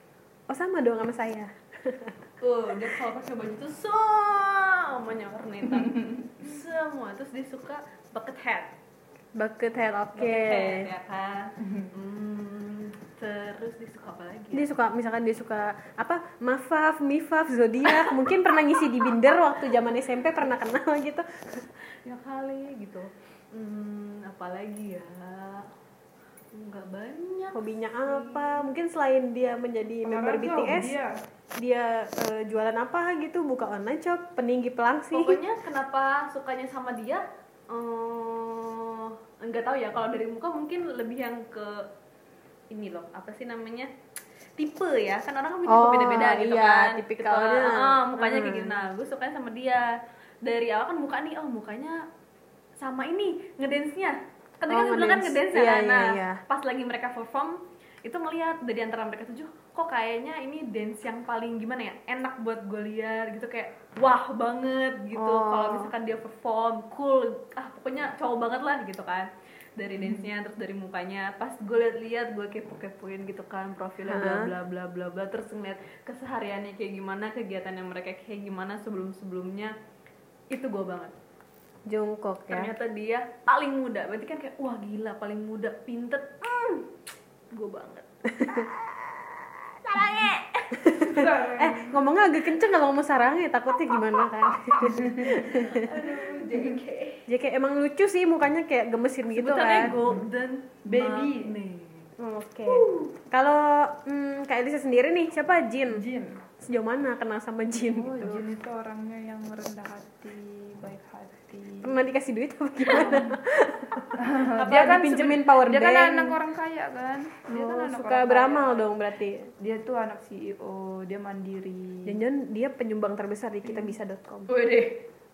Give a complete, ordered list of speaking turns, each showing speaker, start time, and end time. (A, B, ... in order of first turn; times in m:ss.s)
0:00.5-0:02.2 A
0:02.4-0:08.7 B
0:05.8-0:06.4 C
0:09.4-0:10.9 A
0:10.2-0:14.7 B
0:14.5-0:21.6 A
0:17.9-0:18.2 B
0:21.9-0:25.7 B
0:26.5-0:28.7 B
0:27.5-0:31.0 A
0:30.0-0:31.2 C
0:31.6-0:35.4 A
0:35.1-0:41.9 B
0:42.7-0:43.9 B
0:44.6-0:52.0 B
0:45.7-0:48.8 A
0:52.8-1:19.7 B
0:54.7-0:56.4 A
1:05.2-1:05.9 A
1:14.1-1:14.5 A
1:20.5-1:21.1 B
1:21.9-1:22.7 A
1:22.5-1:26.9 B
1:27.5-1:30.7 B
1:28.3-1:28.6 A
1:30.7-1:36.0 A
1:30.9-1:32.0 C
1:34.9-1:36.8 C
1:35.5-1:37.3 B
1:37.3-1:40.0 A
1:39.3-1:42.1 B
1:40.8-1:41.6 C
1:42.2-1:46.1 A
1:42.7-1:43.1 B
1:45.9-1:46.4 C
1:46.6-1:48.4 A
1:47.8-1:52.0 C
1:51.8-1:56.4 A
1:52.9-1:53.2 B
1:54.2-1:58.9 C
1:57.5-1:59.5 A
1:59.6-2:02.2 C
2:02.1-2:04.5 A
2:04.5-2:05.0 B